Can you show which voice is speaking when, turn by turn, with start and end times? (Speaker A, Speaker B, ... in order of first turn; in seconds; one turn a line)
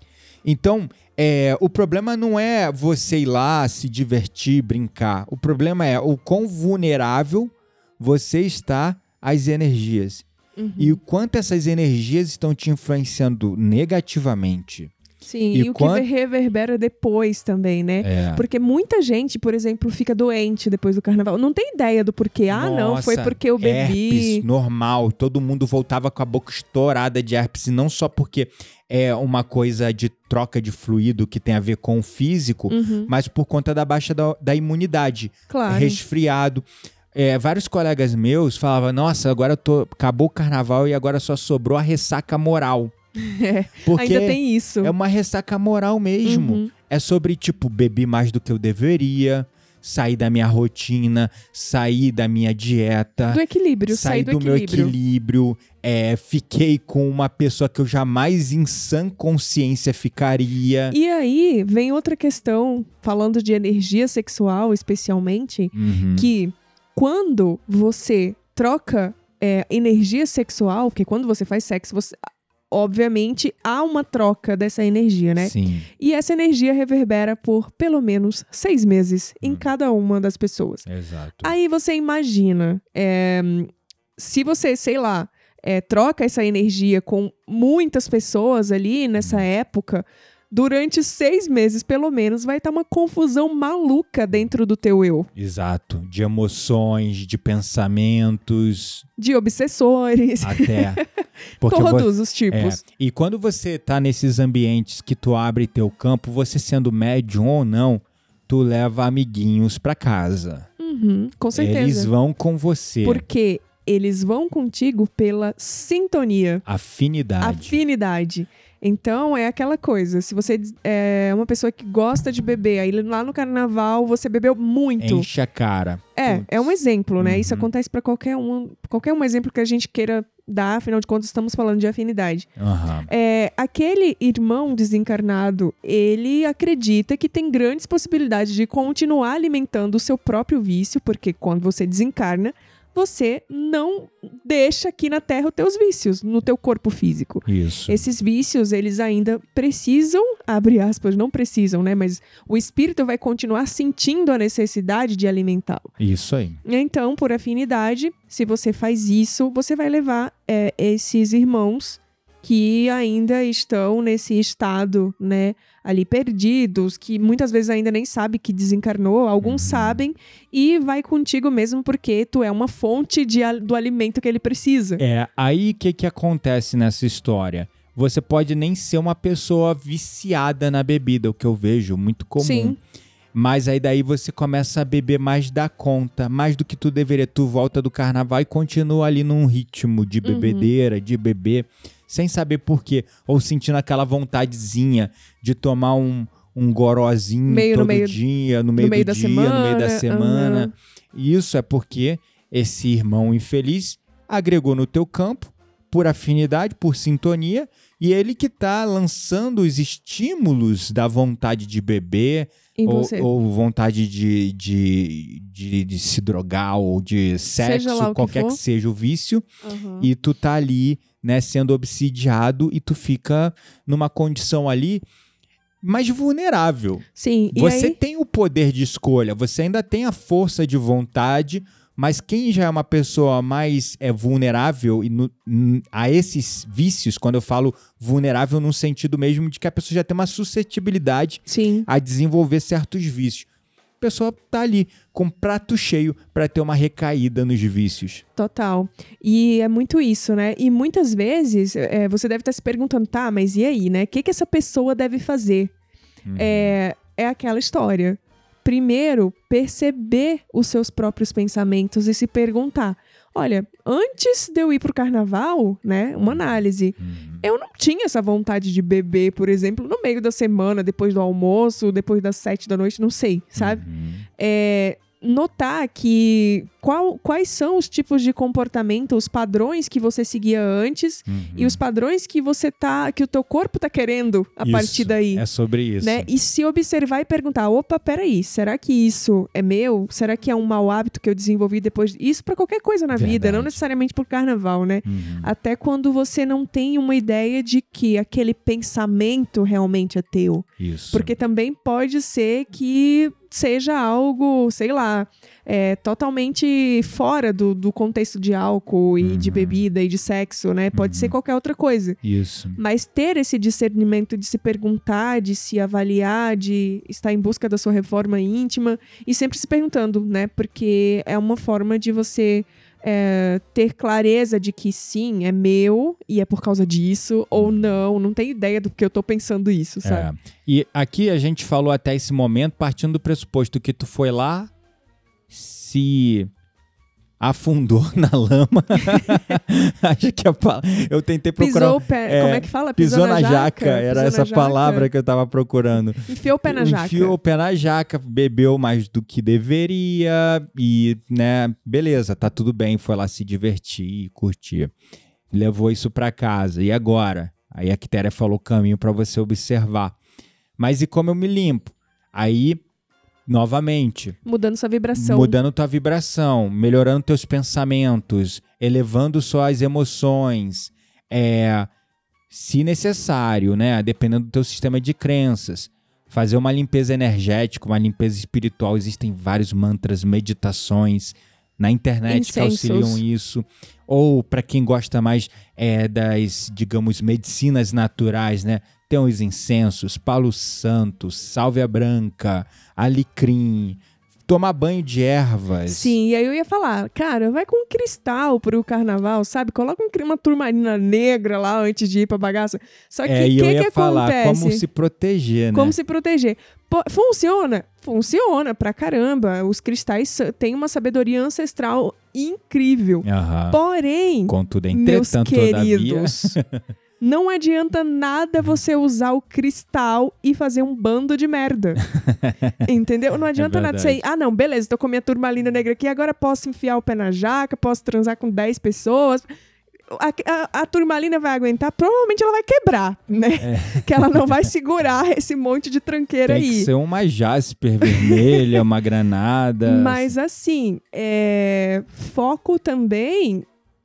Speaker A: 0.4-10.3
Speaker B: 10.6-11.0
Speaker A: 10.8-14.9
Speaker B: 15.2-24.5
Speaker A: 15.5-16.1
Speaker A: 18.0-18.4
Speaker A: 22.5-42.9
Speaker B: 32.7-33.1
Speaker B: 35.5-36.0
Speaker B: 43.2-44.9
Speaker A: 43.9-61.0
Speaker B: 46.2-46.7
Speaker B: 53.3-55.0
Speaker B: 60.9-72.2
Speaker A: 65.7-66.3
Speaker B: 72.7-80.8
Speaker A: 75.4-75.9
Speaker A: 79.4-79.7
Speaker A: 80.9-81.5
Speaker B: 81.4-95.3
Speaker A: 89.2-89.5
Speaker A: 95.3-99.0
Speaker B: 99.2-101.0
Speaker A: 100.4-101.0
Speaker A: 101.6-110.7
Speaker B: 101.6-102.8
Speaker B: 110.8-112.1
Speaker A: 111.5-113.2
Speaker B: 113.0-116.7
Speaker A: 116.7-117.8
Speaker B: 117.4-125.3
Speaker A: 125.0-127.7
Speaker B: 126.2-132.5
Speaker A: 132.6-133.1
Speaker B: 133.1-155.9
Speaker A: 147.5-148.0
Speaker A: 156.0-156.6
Speaker B: 156.7-175.0
Speaker A: 169.4-170.0
Speaker A: 175.0-182.8
Speaker B: 182.4-182.8
Speaker A: 183.3-219.4
Speaker B: 190.2-190.7
Speaker B: 197.5-198.2
Speaker B: 198.8-200.7
Speaker B: 212.8-213.3
Speaker B: 217.6-218.6
Speaker B: 219.6-220.1
Speaker A: 220.0-225.0
Speaker A: 225.8-243.5
Speaker B: 227.2-228.0
Speaker B: 241.5-241.9
Speaker A: 244.0-248.2
Speaker B: 248.4-255.7
Speaker A: 256.3-256.8
Speaker B: 256.4-273.8
Speaker A: 266.3-267.4
Speaker A: 273.6-274.3
Speaker B: 274.4-285.4
Speaker A: 281.3-281.8
Speaker A: 284.6-286.3
Speaker B: 286.0-312.2
Speaker A: 293.1-293.8
Speaker A: 295.1-295.5
Speaker A: 300.8-301.3
Speaker A: 309.2-309.8
Speaker A: 310.9-311.3
Speaker A: 312.2-312.8
Speaker B: 312.8-330.3
Speaker A: 327.6-327.9
Speaker A: 330.0-334.7
Speaker A: 335.5-336.5
Speaker A: 337.4-354.9
Speaker B: 341.6-345.1
Speaker B: 346.3-347.4
Speaker A: 355.5-360.2
Speaker A: 360.8-362.8
Speaker A: 363.5-364.4
Speaker B: 364.4-365.6
Speaker A: 365.1-371.9
Speaker A: 372.5-396.2
Speaker B: 382.3-383.2
Speaker B: 395.9-404.8
Speaker A: 403.2-405.9
Speaker B: 405.7-416.6
Speaker A: 413.2-413.8
Speaker A: 414.5-416.8
Speaker B: 417.2-422.0
Speaker A: 422.0-422.8
Speaker B: 422.9-429.5
Speaker A: 423.6-424.2
Speaker B: 430.1-436.9
Speaker A: 433.6-434.5
Speaker A: 436.5-440.3
Speaker B: 438.1-438.8
Speaker B: 439.8-443.7